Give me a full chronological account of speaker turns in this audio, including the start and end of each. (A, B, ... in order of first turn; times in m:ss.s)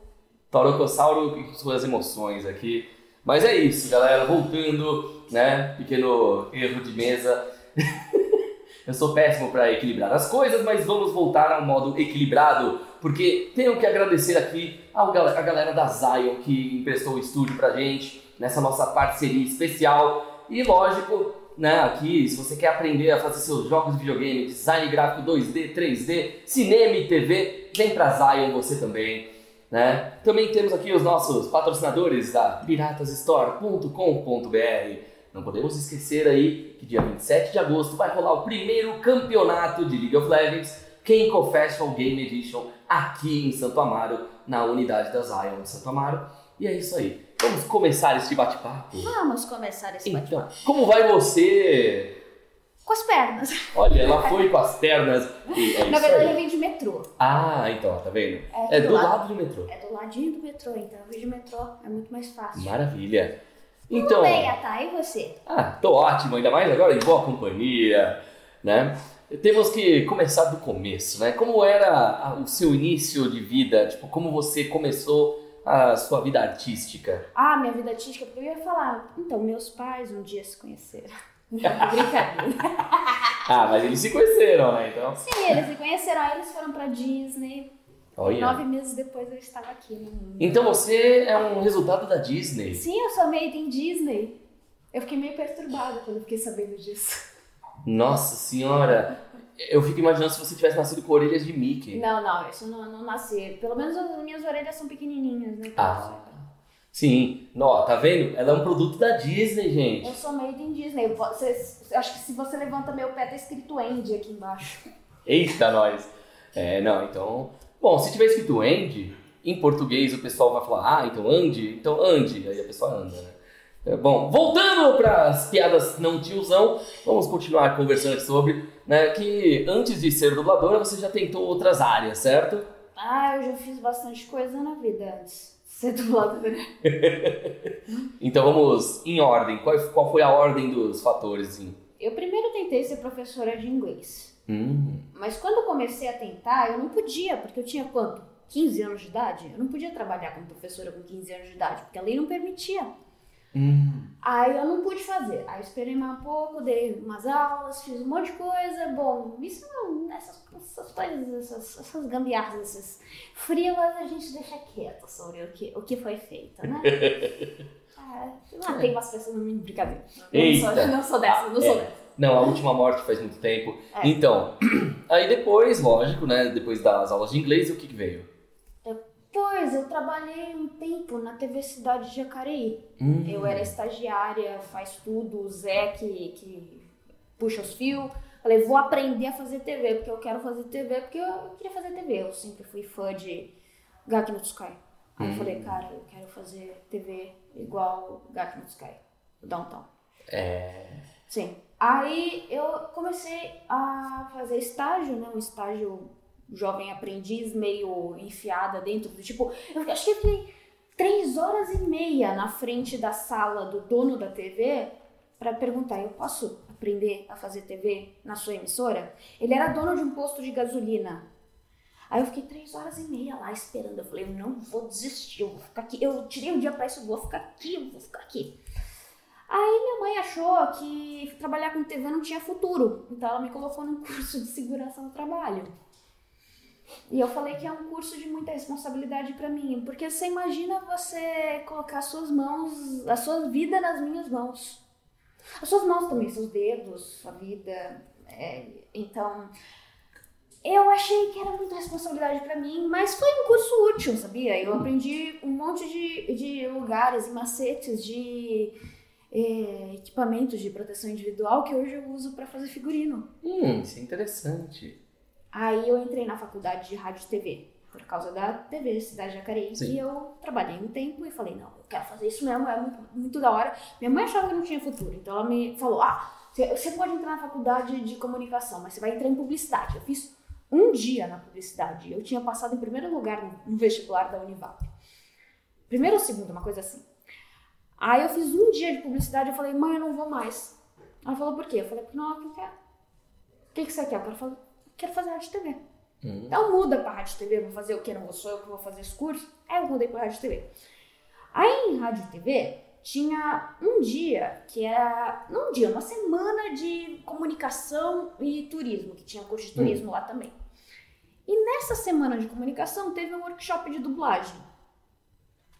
0:00.5-0:49.1 A
0:49.0-0:50.5 B
0:50.0-0:52.2 A
0:52.8-0:54.4 B
0:53.7-0:56.4 A
0:55.5-0:57.1 B
0:57.2-0:59.7 A
0:58.5-1:02.8 B
1:02.6-1:04.5 A
1:03.9-1:05.4 B
1:05.4-1:17.2 A
1:17.3-1:23.4 B
1:21.6-1:22.0 A
1:23.4-1:25.2 A
1:25.2-1:27.7 B
1:28.2-1:28.6 A
1:28.3-1:30.8 B
1:30.4-1:32.8 A
1:32.7-1:34.4 B
1:34.9-1:37.2 B
1:37.8-1:42.0 A
1:41.9-1:46.3 B
1:45.8-1:50.2 A
1:50.0-1:54.9 B
1:55.2-2:12.7 A
2:13.0-2:16.7 B
2:16.8-2:17.7 A
2:18.2-2:21.8 A
2:22.0-2:24.3 B
2:24.5-2:25.0 A
2:25.1-2:32.9 B
2:33.5-2:34.1 A
2:34.2-2:47.2 B
2:46.8-2:47.5 A
2:48.0-2:52.0 B
2:50.3-2:58.3 A
2:58.8-3:06.8 B
3:03.0-3:03.7 A
3:07.4-3:13.5 B
3:14.0-3:19.9 B
3:15.2-3:15.7 A
3:20.3-3:21.0 A
3:21.3-3:41.2 B
3:42.1-3:48.5 B
3:49.5-3:55.7 B
3:57.1-4:04.8 B
4:05.6-4:09.5 B
4:10.6-4:18.7 B
4:19.3-4:23.3 B
4:23.4-4:25.0 A
4:25.5-4:44.8 B
4:45.9-4:47.0 B
4:48.0-4:52.7 B
4:53.7-4:55.8 B
4:56.2-4:56.6 A
4:56.5-5:00.6 B
5:01.5-5:10.5 B
5:09.8-5:10.0 A
5:11.5-5:14.6 B